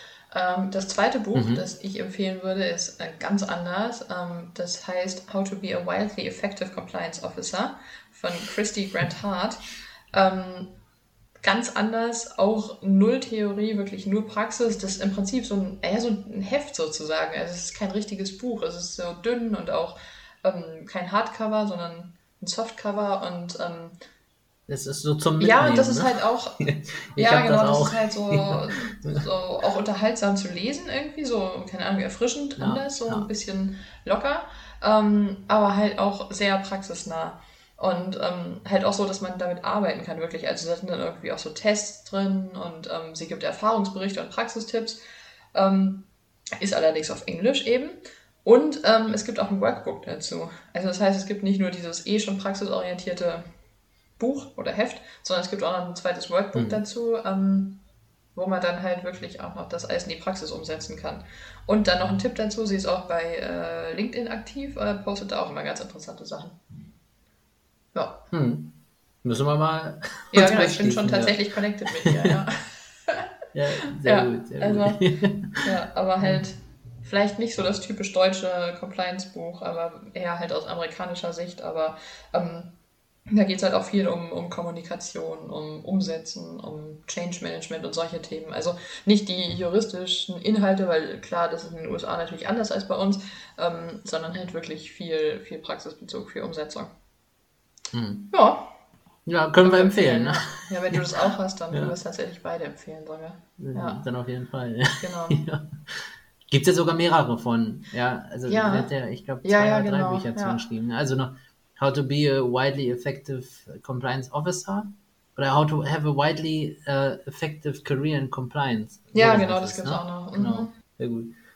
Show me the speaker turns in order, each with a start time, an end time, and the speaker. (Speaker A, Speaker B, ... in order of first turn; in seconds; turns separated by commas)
Speaker A: 0.3-10.8, Speaker B: 1.3-1.6, Speaker A: 11.4-24.0, Speaker B: 24.7-29.2, Speaker A: 25.4-26.6, Speaker A: 27.1-45.0, Speaker B: 32.6-33.3, Speaker A: 45.5-53.5, Speaker A: 54.2-57.8, Speaker B: 56.5-56.8, Speaker A: 58.3-66.6, Speaker A: 67.9-68.2, Speaker B: 68.3-72.3, Speaker A: 70.3-73.2, Speaker B: 73.5-75.6, Speaker A: 74.0-82.8, Speaker A: 83.3-96.9, Speaker B: 97.9-98.3, Speaker A: 98.3-98.7, Speaker B: 99.2-100.5, Speaker A: 99.6-104.0, Speaker B: 103.6-121.4, Speaker A: 105.0-105.4, Speaker A: 108.5-108.9, Speaker A: 109.4-110.6, Speaker A: 119.1-120.7